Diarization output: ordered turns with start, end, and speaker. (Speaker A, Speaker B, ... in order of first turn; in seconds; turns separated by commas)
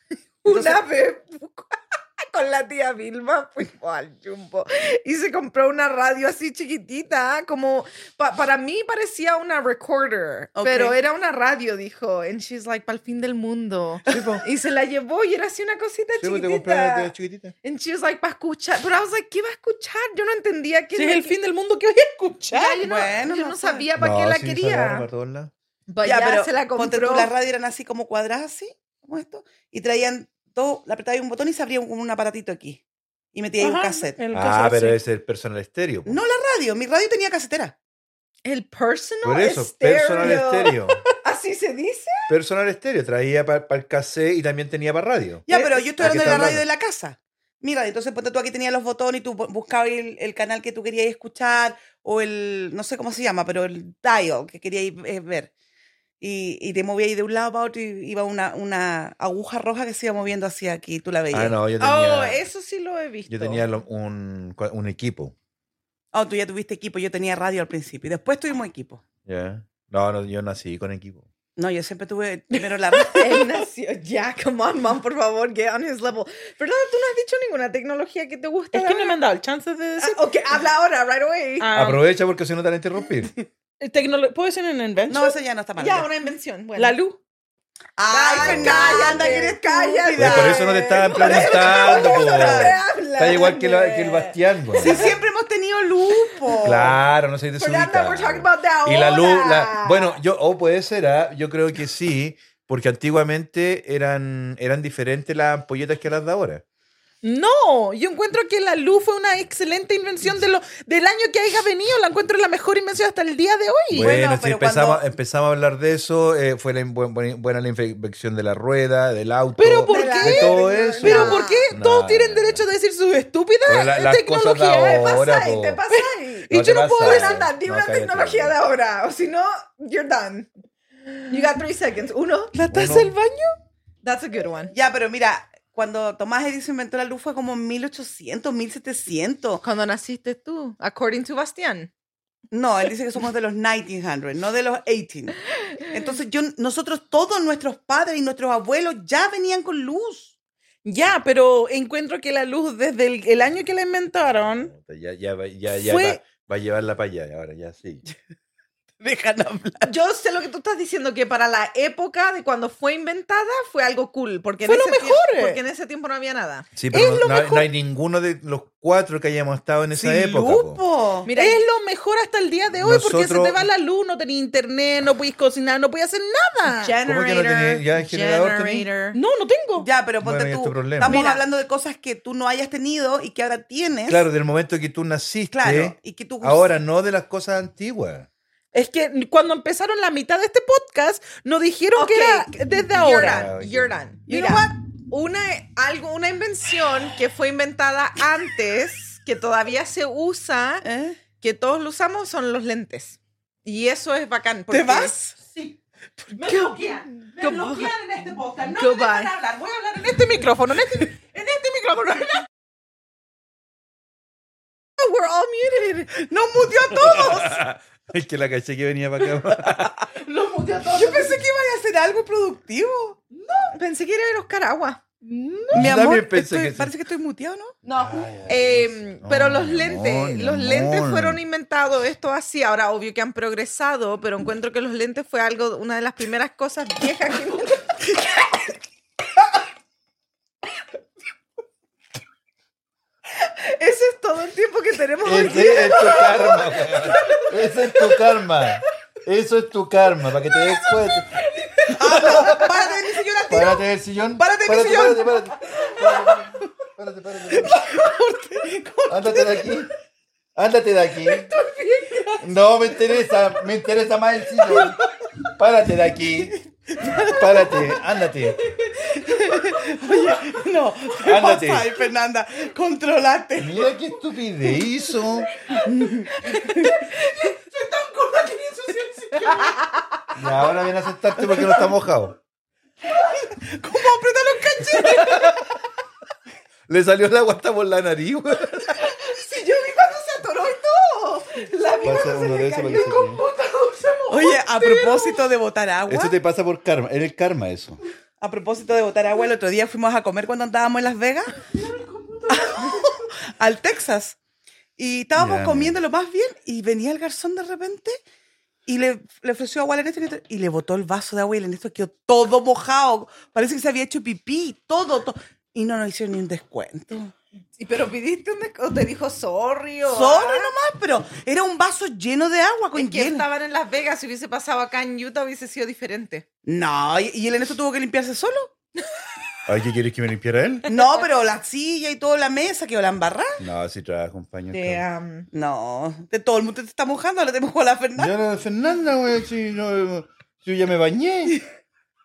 Speaker A: 0.4-21.3, Speaker B: 0.5-0.8, Speaker B: 10.5-11.0, Speaker C: 14.1-14.4, Speaker C: 16.2-17.5, Speaker D: 20.9-22.8, Speaker A: 22.5-25.1, Speaker B: 22.8-23.9, Speaker C: 24.0-25.5, Speaker A: 25.9-27.3, Speaker B: 26.0-32.8, Speaker B: 33.3-34.2, Speaker D: 33.6-35.0, Speaker C: 34.3-36.2, Speaker B: 36.0-37.8, Speaker A: 38.4-42.3, Speaker C: 39.2-41.0, Speaker C: 42.3-46.6, Speaker B: 45.5-55.5, Speaker A: 45.5-46.5, Speaker B: 56.2-61.5, Speaker C: 61.3-62.4, Speaker A: 61.8-63.6, Speaker C: 63.3-65.3, Speaker B: 66.1-69.0, Speaker C: 69.2-71.3, Speaker B: 71.6-73.5, Speaker A: 73.1-79.2, Speaker D: 78.7-80.2, Speaker A: 80.0-81.7, Speaker D: 81.6-82.0, Speaker C: 81.7-83.3, Speaker D: 83.8-85.3, Speaker B: 85.1-86.1, Speaker A: 85.8-87.0, Speaker D: 86.8-87.2, Speaker B: 88.0-92.7, Speaker A: 88.1-95.1, Speaker C: 88.4-88.8, Speaker C: 90.2-95.1, Speaker B: 94.8-97.0, Speaker C: 96.6-106.6, Speaker A: 97.6-100.2, Speaker D: 107.2-114.1, Speaker C: 113.9-122.6, Speaker B: 114.0-115.0, Speaker D: 119.6-125.1, Speaker A: 119.9-121.7, Speaker C: 123.7-125.8, Speaker A: 124.7-130.5, Speaker D: 125.9-127.5, Speaker C: 126.5-128.6, Speaker A: 131.1-132.5, Speaker D: 132.5-133.5, Speaker C: 132.7-133.1, Speaker A: 134.0-134.7, Speaker B: 134.7-139.6, Speaker A: 139.6-141.9, Speaker B: 142.5-150.3, Speaker D: 150.8-154.7, Speaker C: 154.4-158.0, Speaker D: 155.7-156.2, Speaker B: 159.0-159.9, Speaker A: 159.8-166.7, Speaker D: 164.6-165.6, Speaker C: 166.8-170.8, Speaker D: 166.9-167.7, Speaker B: 169.9-171.3, Speaker A: 171.2-171.6, Speaker D: 171.3-176.9, Speaker C: 172.8-173.6, Speaker A: 176.7-179.2, Speaker C: 177.0-178.9, Speaker D: 179.1-179.9, Speaker B: 179.8-184.2, Speaker C: 180.2-181.2, Speaker A: 181.1-181.4, Speaker C: 184.1-188.3, Speaker B: 185.5-186.7, Speaker D: 188.7-193.5, Speaker A: 191.9-200.8, Speaker C: 193.1-193.9, Speaker B: 194.3-194.7, Speaker B: 200.8-201.2, Speaker A: 201.4-205.2, Speaker B: 204.7-205.3, Speaker D: 205.5-205.8, Speaker D: 206.3-212.4, Speaker A: 206.4-206.7, Speaker A: 207.3-207.9, Speaker A: 208.7-209.3, Speaker A: 215.0-216.1, Speaker B: 216.1-217.6, Speaker C: 216.9-220.1, Speaker D: 220.1-221.4, Speaker B: 220.9-223.2, Speaker D: 223.3-223.7, Speaker A: 223.7-225.2, Speaker D: 225.3-225.7, Speaker C: 225.7-226.9, Speaker B: 225.7-227.8, Speaker A: 227.8-238.1, Speaker C: 227.9-231.4, Speaker A: 243.4-247.5, Speaker C: 245.2-251.3, Speaker A: 251.5-252.9, Speaker B: 251.9-253.8, Speaker C: 253.5-257.8, Speaker B: 254.3-255.4, Speaker B: 257.5-259.6, Speaker C: 259.1-259.9, Speaker C: 260.6-261.5, Speaker A: 261.2-262.4, Speaker C: 262.4-265.0, Speaker C: 265.6-266.5, Speaker A: 267.0-267.8, Speaker B: 267.0-267.7, Speaker C: 267.2-268.6, Speaker A: 268.8-269.6, Speaker B: 269.2-273.9, Speaker C: 271.2-271.9, Speaker C: 273.6-275.5, Speaker B: 275.9-276.3, Speaker D: 275.9-279.8, Speaker A: 276.4-277.5, Speaker A: 279.5-280.1, Speaker C: 280.3-282.4, Speaker B: 283.6-285.3, Speaker D: 284.5-285.5, Speaker C: 286.9-289.0, Speaker A: 288.9-293.6, Speaker C: 292.0-293.4, Speaker D: 293.4-295.4, Speaker B: 294.3-296.3, Speaker C: 296.1-298.0, Speaker B: 298.4-301.6, Speaker D: 301.7-303.1, Speaker B: 302.5-304.4, Speaker B: 305.0-308.2, Speaker C: 305.3-306.0, Speaker B: 308.9-317.3, Speaker A: 317.8-320.7, Speaker B: 320.1-323.4, Speaker A: 322.9-326.4, Speaker B: 326.6-328.7, Speaker C: 329.7-330.9, Speaker B: 330.9-333.6, Speaker C: 333.6-335.0, Speaker A: 334.7-335.5, Speaker B: 335.5-338.3, Speaker C: 338.2-341.6